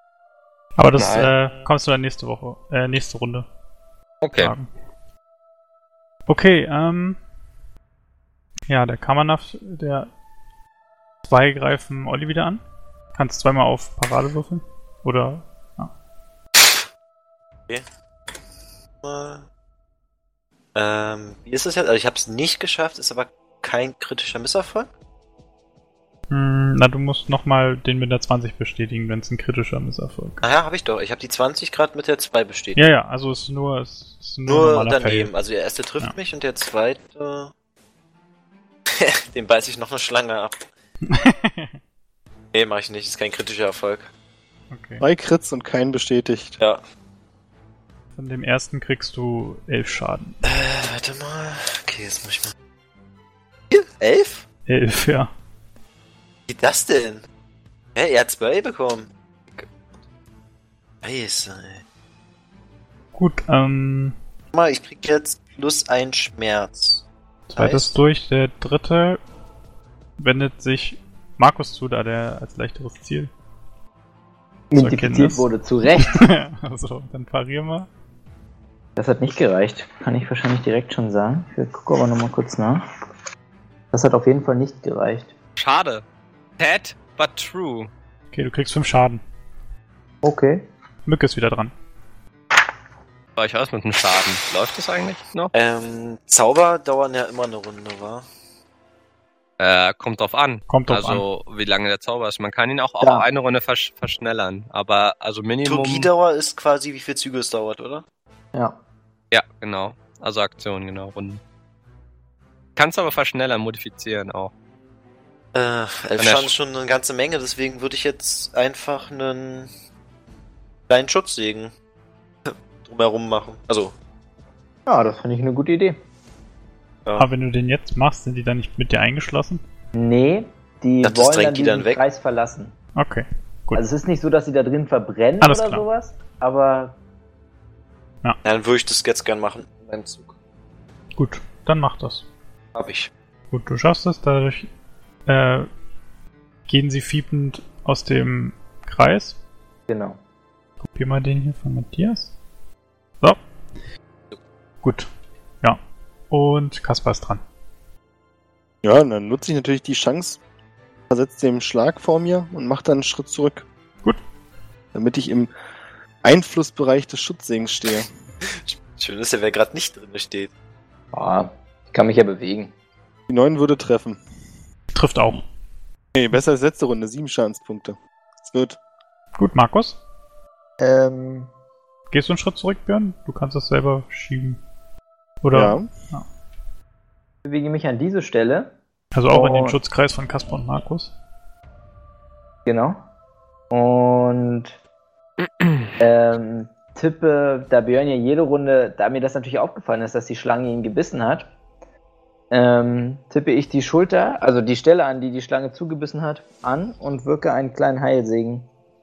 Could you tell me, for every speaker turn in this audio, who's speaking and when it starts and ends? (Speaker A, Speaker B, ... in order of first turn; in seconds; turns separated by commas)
Speaker A: 0.8-3.5, Speaker B: 1.0-1.3, Speaker B: 4.2-4.5, Speaker A: 4.4-4.7, Speaker A: 6.3-7.2, Speaker A: 8.7-10.1, Speaker A: 11.2-12.6, Speaker A: 13.2-15.9, Speaker C: 19.0-19.4, Speaker C: 20.8-24.9, Speaker A: 26.3-30.4, Speaker C: 30.4-32.8, Speaker A: 32.8-35.3, Speaker C: 34.5-37.5, Speaker C: 39.0-40.7, Speaker A: 41.1-41.8, Speaker C: 42.5-44.1, Speaker A: 44.7-45.0, Speaker D: 45.0-46.6, Speaker A: 48.2-50.4, Speaker C: 50.4-52.5, Speaker C: 53.7-54.5, Speaker A: 54.7-55.3, Speaker C: 56.5-57.2, Speaker C: 58.0-59.7, Speaker C: 61.0-61.8, Speaker A: 63.1-64.2, Speaker C: 64.5-67.0, Speaker A: 67.5-69.2, Speaker C: 67.6-67.9, Speaker A: 70.2-73.3, Speaker E: 74.7-76.2, Speaker A: 74.8-77.9, Speaker E: 79.0-82.8, Speaker E: 83.9-85.3, Speaker B: 85.6-86.0, Speaker B: 86.6-87.9, Speaker A: 88.3-89.2, Speaker E: 90.2-90.7, Speaker A: 91.1-91.7, Speaker B: 93.4-95.5, Speaker C: 95.5-98.2, Speaker B: 99.6-106.1, Speaker A: 100.7-101.2, Speaker E: 103.0-103.3, Speaker C: 105.7-108.0, Speaker B: 109.3-111.4, Speaker B: 112.8-114.5, Speaker C: 115.5-119.7, Speaker B: 116.2-116.5, Speaker C: 120.9-121.7, Speaker C: 122.5-123.9, Speaker E: 124.9-126.0, Speaker A: 127.2-129.6, Speaker E: 129.9-132.7, Speaker C: 131.0-132.0, Speaker A: 133.0-133.8, Speaker E: 133.7-137.0, Speaker A: 135.4-135.8, Speaker C: 138.4-140.3, Speaker A: 141.2-142.3, Speaker C: 142.8-143.1, Speaker A: 143.5-144.7, Speaker A: 145.3-145.7, Speaker A: 146.7-149.4, Speaker E: 149.9-150.2, Speaker A: 150.8-152.3, Speaker A: 154.8-155.1, Speaker A: 156.3-157.4, Speaker D: 158.8-160.4, Speaker D: 161.1-163.7, Speaker D: 164.9-165.5, Speaker D: 166.2-168.1, Speaker C: 168.5-170.5, Speaker E: 171.1-172.7, Speaker D: 173.3-174.2, Speaker A: 174.9-175.4, Speaker D: 176.2-178.8, Speaker A: 179.4-180.0, Speaker E: 180.8-181.5, Speaker A: 182.1-184.6, Speaker A: 185.4-186.2, Speaker D: 185.5-185.9, Speaker E: 187.4-188.7, Speaker A: 189.1-191.1, Speaker E: 189.3-189.8, Speaker E: 192.7-193.0, Speaker E: 193.7-194.8, Speaker E: 196.0-201.5, Speaker E: 202.5-208.7